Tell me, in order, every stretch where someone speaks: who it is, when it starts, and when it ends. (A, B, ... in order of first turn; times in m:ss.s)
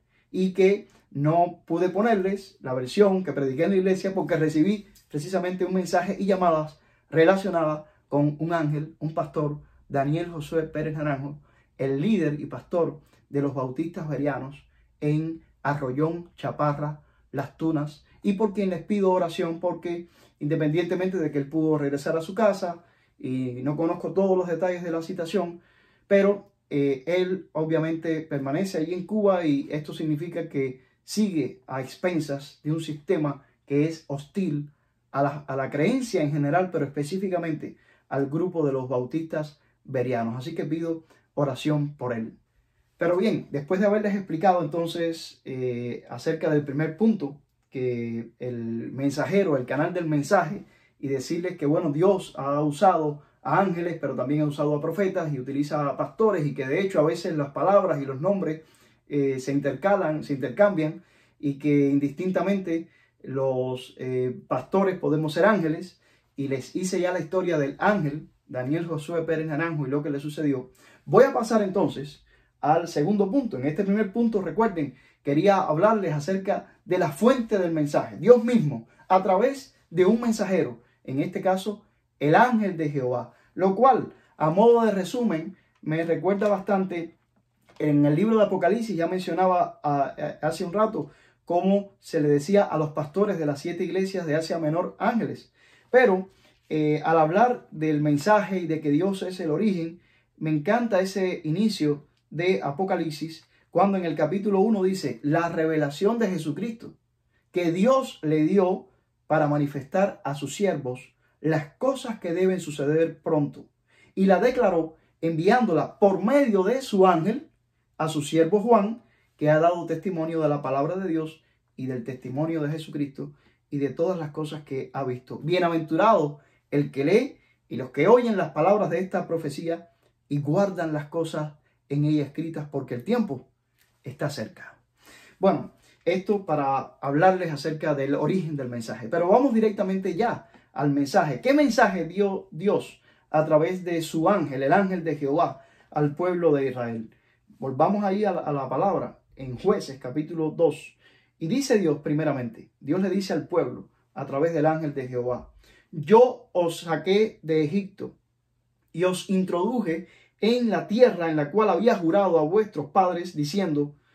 0:00.3-0:42.4 A
0:43.0-1:27.1 A
1:27.8-1:47.0 A
1:47.5-1:57.5 A
1:58.0-2:13.5 A
2:14.0-2:14.8 A
2:15.4-2:38.2 A
2:38.9-2:44.0 A